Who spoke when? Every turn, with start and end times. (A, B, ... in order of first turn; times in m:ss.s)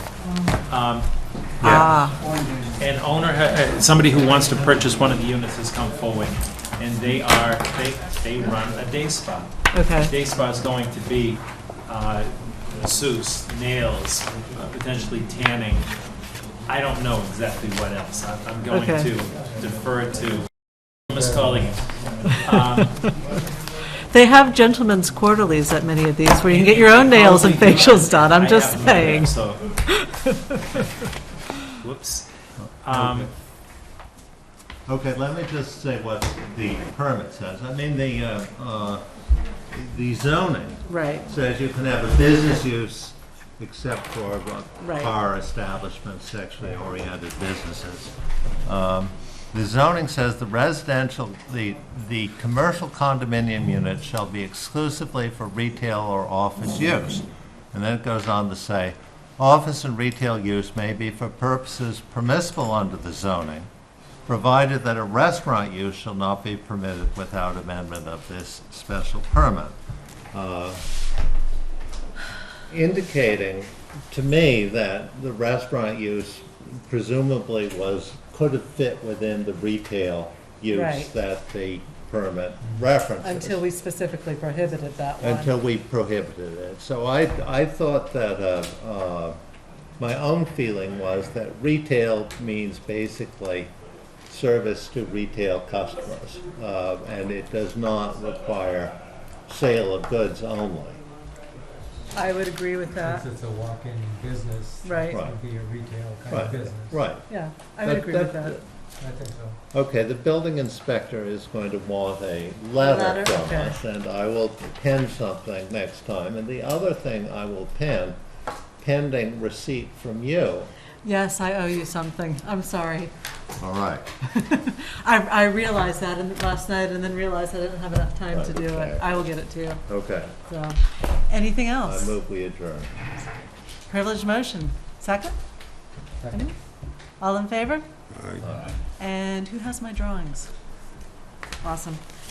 0:00.7-0:01.1 A
0:01.6-0:01.9 B
0:01.6-0:02.2 C
0:01.6-0:01.9 A
0:02.4-0:02.8 D
0:02.8-0:15.9 A
0:09.7-0:10.1 C
0:16.7-0:20.5 A
0:18.7-0:19.1 C
0:21.1-0:23.0 A
0:24.1-0:30.9 C
0:26.5-0:29.7 A
0:31.8-0:32.3 A
0:32.8-0:33.3 A
0:32.9-0:33.3 B
0:34.9-0:39.0 B
0:39.7-0:48.1 B
0:40.9-0:41.3 C
0:44.8-0:45.1 C
0:48.6-1:03.7 B
1:04.3-1:09.8 B
1:10.3-1:10.8 B
1:12.7-1:23.6 B
1:20.7-1:21.1 C
1:23.2-1:25.5 C
1:25.2-1:29.4 B
1:30.0-1:33.7 B
1:34.3-1:41.0 B
1:42.2-1:43.2 C
1:43.0-1:47.0 D
1:44.8-1:45.2 C
1:45.1-1:45.4 B
1:46.3-1:47.3 B
1:47.3-1:48.6 C
1:47.8-1:48.6 B
1:49.0-1:49.6 D
1:49.7-1:58.2 B
1:52.8-1:53.8 C
1:58.8-2:00.7 B
2:01.0-2:03.1 C
2:03.6-2:04.1 B
2:04.3-2:09.8 C
2:08.3-2:09.2 B
2:09.9-2:10.3 B
2:10.5-2:10.8 C
2:11.3-2:12.1 C
2:11.8-2:12.9 B
2:13.9-2:15.4 C
2:17.2-2:17.8 C
2:18.4-2:18.7 B
2:19.0-2:20.5 C
2:21.6-2:22.0 C